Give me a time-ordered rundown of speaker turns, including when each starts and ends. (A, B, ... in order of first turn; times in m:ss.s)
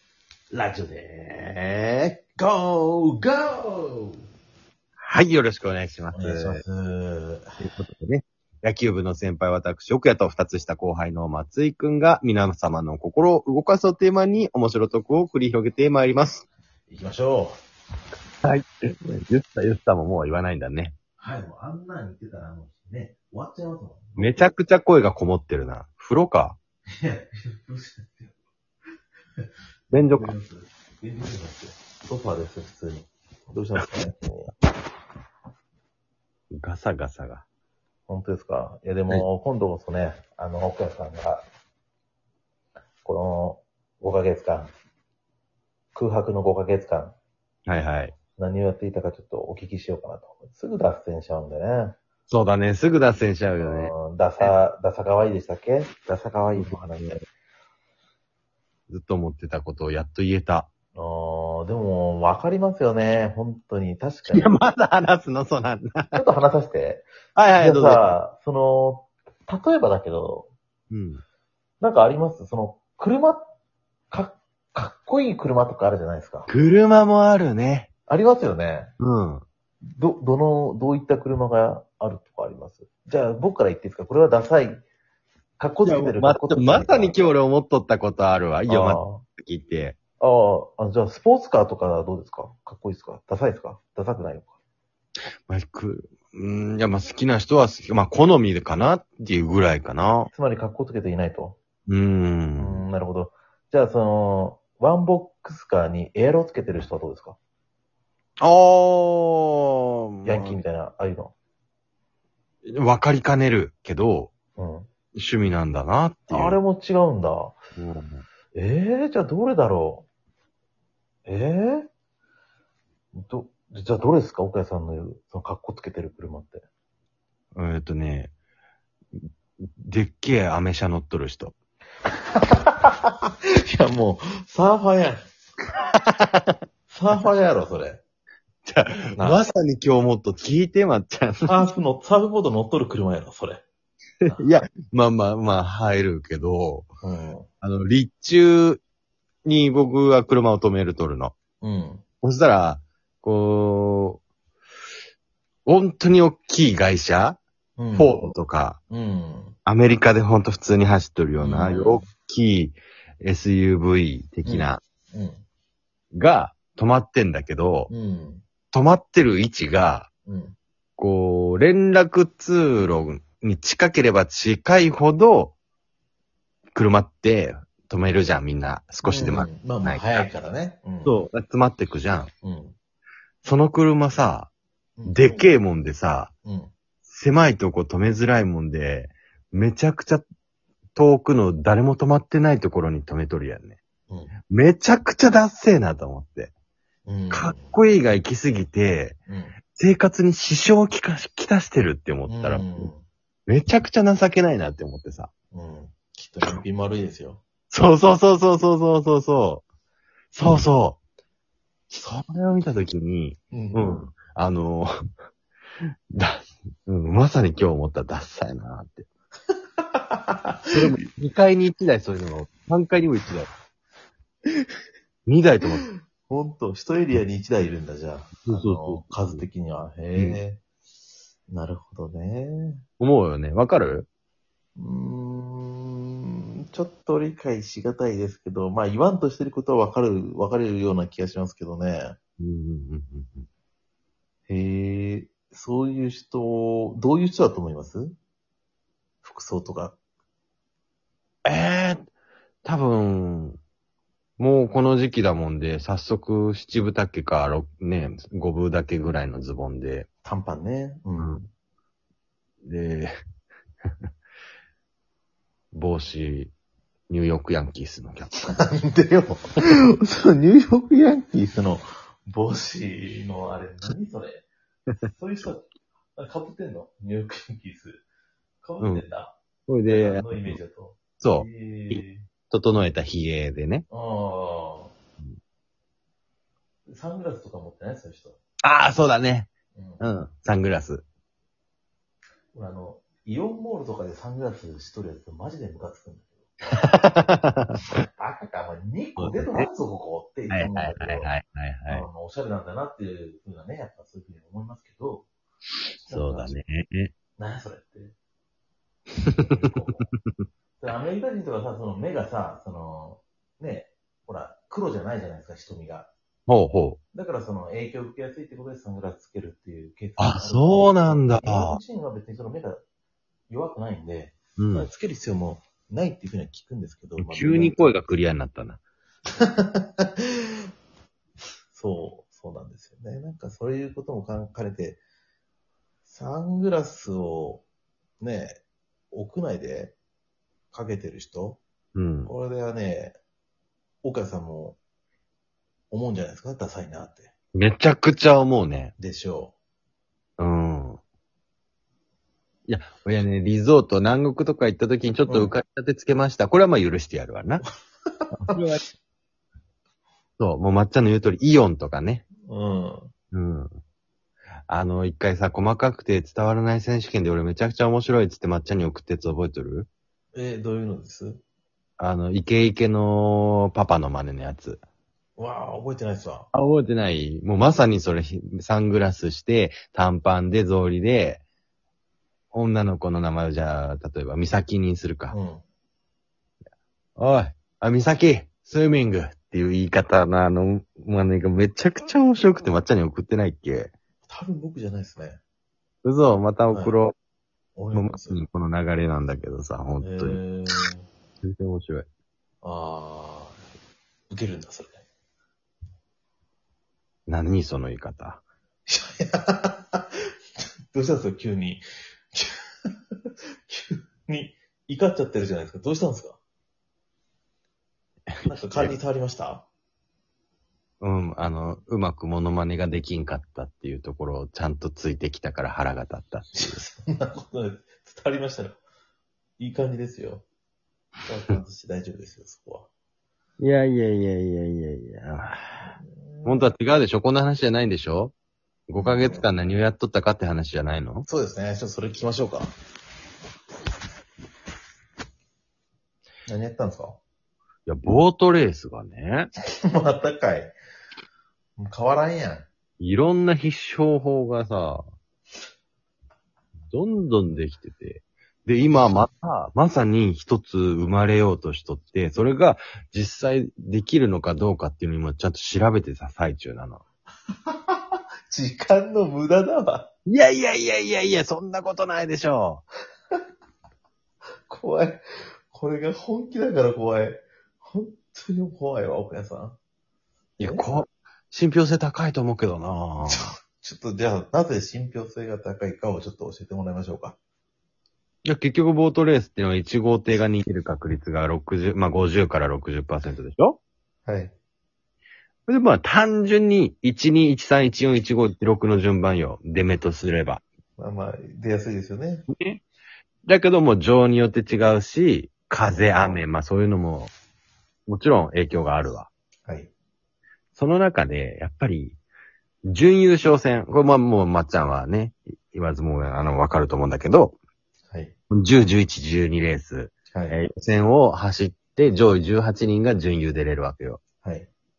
0:00.5-0:01.4 A
0:01.6-0:02.1 B
0:02.3-0:04.2 A
0:05.0-0:06.6 B
0:06.1-0:07.4 A
0:07.6-0:16.4 B
0:16.9-0:17.5 A
0:18.4-0:21.0 B
0:21.2-0:24.4 A
0:24.2-0:26.6 B
0:27.0-0:28.3 A
0:29.9-0:30.3 B
0:30.1-0:34.5 A
0:36.5-0:37.4 B
0:38.1-0:41.4 A
0:43.0-0:44.7 A
0:45.9-0:47.2 A
0:47.6-0:48.2 B
0:48.4-0:51.9 A
0:52.3-0:54.5 B
0:53.6-0:57.2 A
0:56.6-0:57.2 B
0:58.9-1:00.7 B
1:00.9-1:04.6 A
1:04.3-1:06.2 B
1:06.1-1:10.5 A
1:07.4-1:08.1 B
1:10.9-1:11.2 B
1:11.8-1:13.4 A
1:14.1-1:16.5 A
1:16.5-1:17.9 B
1:18.1-1:18.9 A
1:19.0-1:19.4 B
1:19.9-1:24.8 A
1:25.6-1:27.2 A
1:25.8-1:30.0 B
1:28.7-1:29.2 A
1:30.2-1:34.5 A
1:35.5-1:40.3 B
1:40.3-1:41.6 A
1:41.9-1:42.8 B
1:42.6-1:47.4 A
1:48.4-1:50.6 B
1:50.2-1:51.3 A
1:52.6-1:54.3 B
1:54.6-1:54.9 A
1:55.1-1:56.6 B
1:56.3-1:57.6 A
1:57.8-1:58.2 B
1:58.5-2:00.0 A
2:01.2-2:01.9 A
2:03.1-2:06.6 A
2:07.5-2:08.3 B
2:09.7-2:11.6 B
2:12.3-2:15.2 A
2:15.9-2:16.5 B
2:16.9-2:18.0 A
2:18.6-2:21.6 B
2:19.2-2:19.4 A
2:21.5-2:23.6 A
2:24.2-2:24.5 A
2:24.3-2:26.9 B
2:27.0-2:27.5 A
2:27.6-2:28.8 B
2:29.4-2:31.3 B
2:31.6-2:32.0 A
2:32.2-2:34.2 B
2:35.6-2:37.4 B
2:37.8-2:38.2 A
2:37.9-2:38.8 B
2:38.9-2:39.6 A
2:39.6-2:44.8 B
2:41.4-2:42.1 A
2:44.4-2:45.4 A
2:46.1-2:47.9 B
2:47.9-2:48.4 A
2:48.7-2:50.1 B
2:50.2-2:50.6 A
2:51.0-2:55.5 B
2:56.7-3:00.2 B
2:59.0-3:01.2 A
3:01.0-3:02.3 B
3:02.4-3:02.7 A
3:03.4-3:04.5 B
3:05.0-3:05.4 A
3:05.1-3:06.3 B
3:06.4-3:06.7 A
3:07.1-3:10.2 B
3:10.9-3:13.8 B
3:14.5-3:16.5 B
3:17.0-3:17.8 A
3:17.3-3:19.2 B
3:19.3-3:19.5 A
3:19.7-3:22.9 B
3:22.2-3:23.0 A
3:23.5-3:25.3 B
3:25.5-3:27.4 A
3:27.7-3:29.6 B
3:30.3-3:31.0 B
3:31.9-3:34.9 B
3:33.5-3:34.0 A
3:36.1-3:39.1 B
3:39.9-3:40.9 A
3:40.7-3:43.5 B
3:45.3-3:45.8 B
3:45.8-3:50.6 A
3:48.5-3:49.4 B
3:50.1-3:50.4 B
3:51.5-3:52.8 A
3:53.0-3:54.1 B
3:54.8-4:02.2 A
4:02.4-4:03.4 B
4:04.5-4:08.2 A
4:09.2-4:10.0 A
4:11.4-4:12.1 B
4:12.6-4:13.6 B
4:14.4-4:20.1 B
4:20.2-4:21.5 A
4:22.6-4:23.1 B
4:25.7-4:26.5 B
4:27.1-4:28.3 B
4:28.5-4:34.4 A
4:35.0-4:38.0 A
4:38.6-4:39.4 A
4:38.8-4:39.0 B
4:39.7-4:40.6 B
4:39.9-4:42.2 A
4:41.2-4:43.8 B
4:43.9-4:44.9 A
4:46.9-4:48.4 A
4:48.6-4:51.0 B
4:49.7-4:50.0 A
4:52.5-4:56.5 A
4:56.8-4:57.8 B
4:57.9-5:01.3 A
4:59.2-4:59.7 B
5:00.5-5:02.0 B
5:01.9-5:05.3 A
5:05.9-5:06.6 A
5:06.1-5:07.1 B
5:07.4-5:08.1 A
5:09.3-5:10.4 B
5:09.4-5:10.1 A
5:10.8-5:16.1 A
5:16.5-5:17.0 B
5:17.1-5:22.8 A
5:20.2-5:21.8 B
5:23.5-5:28.0 A
5:24.6-5:24.9 B
5:27.2-5:28.8 B
5:29.4-5:30.1 A
5:31.7-5:35.0 A
5:36.0-5:37.6 A
5:38.2-5:40.0 A
5:40.7-5:41.6 A
5:41.9-5:42.3 B
5:42.2-5:43.2 A
5:44.0-5:44.8 A
5:45.9-5:47.3 A
5:47.5-5:48.9 B
5:49.0-5:49.5 A
5:50.4-5:51.0 B
5:52.7-5:57.6 B
5:55.3-5:55.5 A
5:58.4-5:58.8 B
6:00.4-6:02.2 B
6:02.4-6:03.1 A
6:03.3-6:03.7 B
6:04.7-6:09.9 B
6:10.3-6:11.4 A
6:12.0-6:14.8 B
6:15.4-6:16.5 A
6:16.5-6:21.4 B
6:22.5-6:25.4 B
6:25.3-6:25.6 A
6:27.2-6:33.9 B
6:34.2-6:35.4 A
6:36.0-6:37.1 B
6:37.8-6:38.4 A
6:37.9-6:40.4 B
6:40.0-6:41.1 A
6:41.4-6:42.1 B
6:42.6-6:43.6 A
6:44.3-6:45.0 A
6:47.3-6:48.4 B
6:48.9-6:50.2 A
6:50.9-6:52.5 A
6:53.7-6:56.4 A
6:58.3-6:59.0 B
6:58.4-6:59.6 A
7:01.0-7:06.8 B
7:06.6-7:08.8 A
7:09.6-7:10.4 A
7:11.2-7:12.9 A
7:13.6-7:15.9 B
7:16.0-7:16.7 A
7:16.4-7:18.3 B
7:18.9-7:21.2 B
7:19.0-7:19.5 A
7:21.3-7:22.7 A
7:26.5-7:27.2 A
7:27.8-7:29.5 B
7:29.9-7:30.7 A
7:31.8-7:32.7 A
7:33.0-7:35.0 B
7:36.9-7:47.0 B
7:47.7-7:50.1 A
7:50.3-7:52.8 B
7:54.7-7:59.8 A
8:00.6-8:03.5 B
8:00.6-8:00.8 A
8:03.3-8:07.4 A
8:08.4-8:13.8 B
8:14.2-8:14.5 A
8:15.7-8:20.6 B
8:21.0-8:22.4 A
8:22.5-8:22.8 B
8:23.4-8:27.3 B
8:25.9-8:26.4 A
8:28.1-8:29.3 B
8:29.6-8:29.9 A
8:30.8-8:32.2 B
8:32.9-8:37.6 B
8:38.5-8:44.2 B
8:40.3-8:40.6 A
8:44.4-8:44.7 A